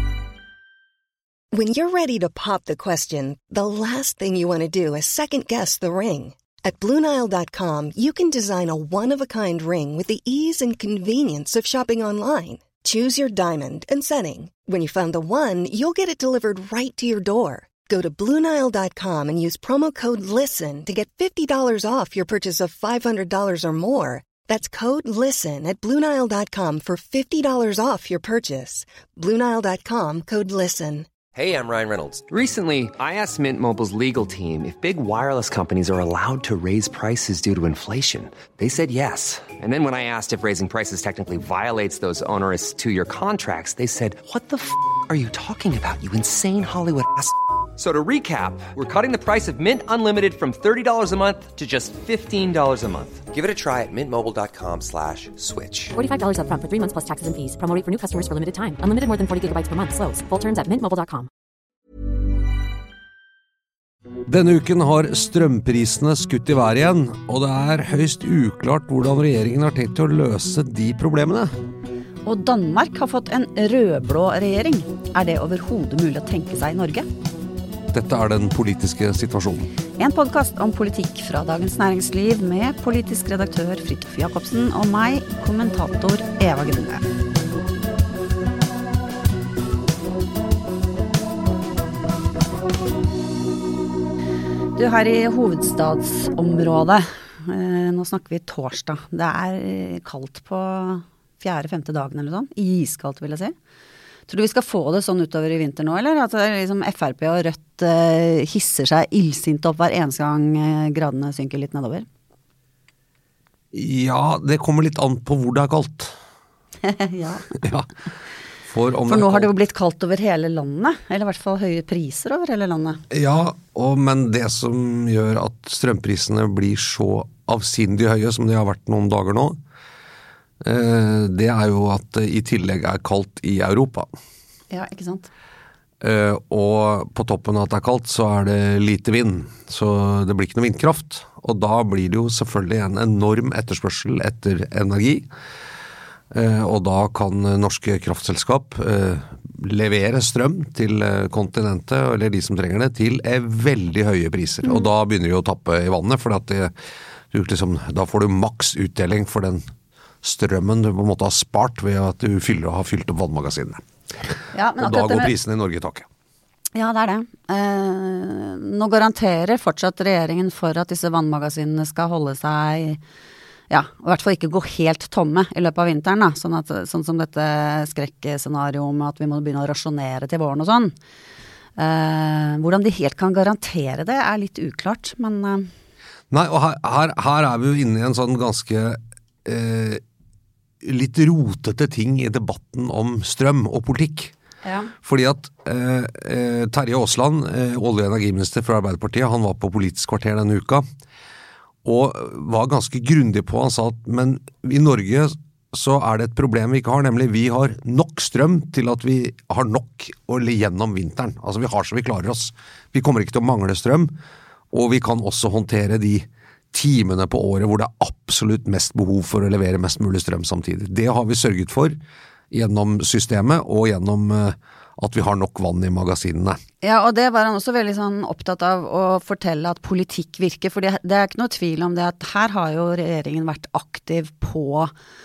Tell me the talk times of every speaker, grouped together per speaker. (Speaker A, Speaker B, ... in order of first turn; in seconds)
Speaker A: 1.5-31.1
Speaker B: 31.3-56.0
Speaker C: 56.0-61.3
Speaker D: 64.3-71.5, 77.9-79.7, 113.7-116.1, 117.5-117.9, 118.7-119.5, 123.1-129.6, 130.6-134.1, 136.0-145.2, 146.3-156.7, 157.3-159.7, 160.2-163.8, 164.8-166.1, 186.3-190.0, 190.8-194.3, 195.0-200.8, 201.8-214.1, 214.7-222.0, 222.5-226.6
Speaker E: 72.2-77.1, 80.0-87.0, 94.8-103.5, 104.3-112.1, 116.8-117.5, 119.1-123.0, 134.7-135.3, 154.6-154.9, 164.5-165.3, 166.7-173.0, 173.7-180.9, 181.8-185.7, 194.6-194.9, 226.8-234.9